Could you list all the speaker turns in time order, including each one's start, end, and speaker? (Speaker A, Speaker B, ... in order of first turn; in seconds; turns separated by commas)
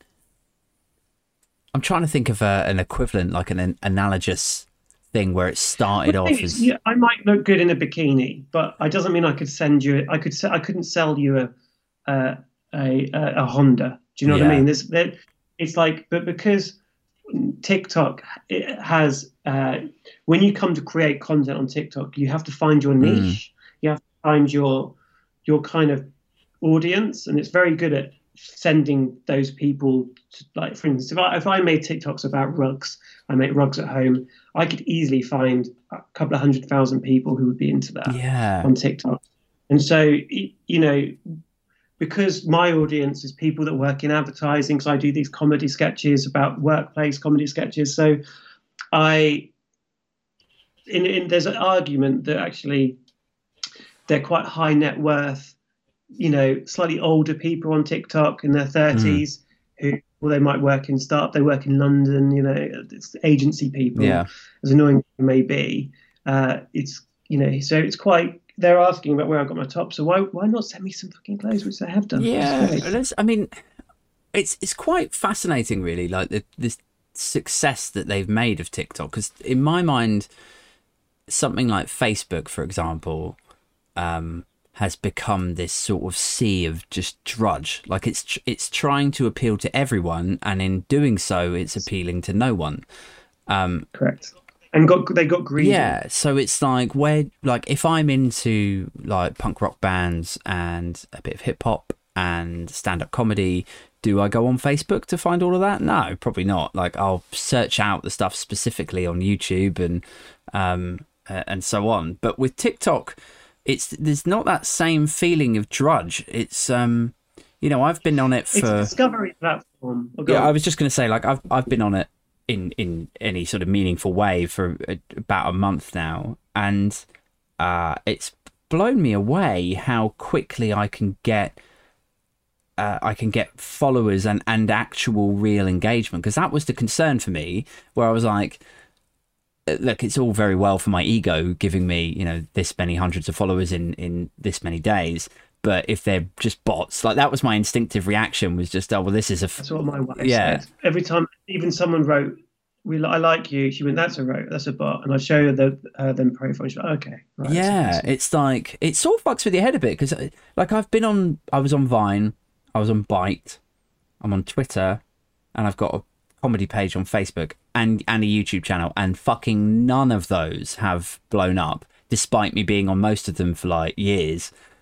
Speaker A: 1.7-6.7, Speaker B: 6.0-11.5, Speaker B: 12.1-16.8, Speaker A: 14.3-14.7, Speaker B: 17.3-24.9, Speaker A: 23.0-23.4, Speaker B: 25.5-26.1, Speaker B: 26.6-41.2, Speaker A: 38.1-38.7, Speaker B: 42.0-48.2, Speaker B: 48.9-49.5, Speaker B: 50.9-53.0, Speaker B: 54.1-55.6, Speaker B: 56.2-72.9, Speaker A: 58.9-59.2, Speaker A: 64.0-64.3, Speaker A: 72.2-73.5, Speaker A: 74.3-80.3, Speaker A: 81.3-83.4, Speaker A: 84.0-92.8, Speaker A: 93.5-93.9, Speaker B: 93.9-96.0, Speaker A: 95.6-110.0, Speaker A: 110.5-118.9, Speaker B: 118.5-120.5, Speaker A: 120.3-127.0, Speaker A: 127.6-131.6, Speaker A: 132.8-138.6, Speaker A: 139.7-149.6, Speaker B: 149.6-152.3, Speaker A: 150.2-150.6, Speaker B: 152.8-158.1, Speaker A: 157.4-163.6, Speaker A: 164.2-165.0, Speaker A: 165.6-174.5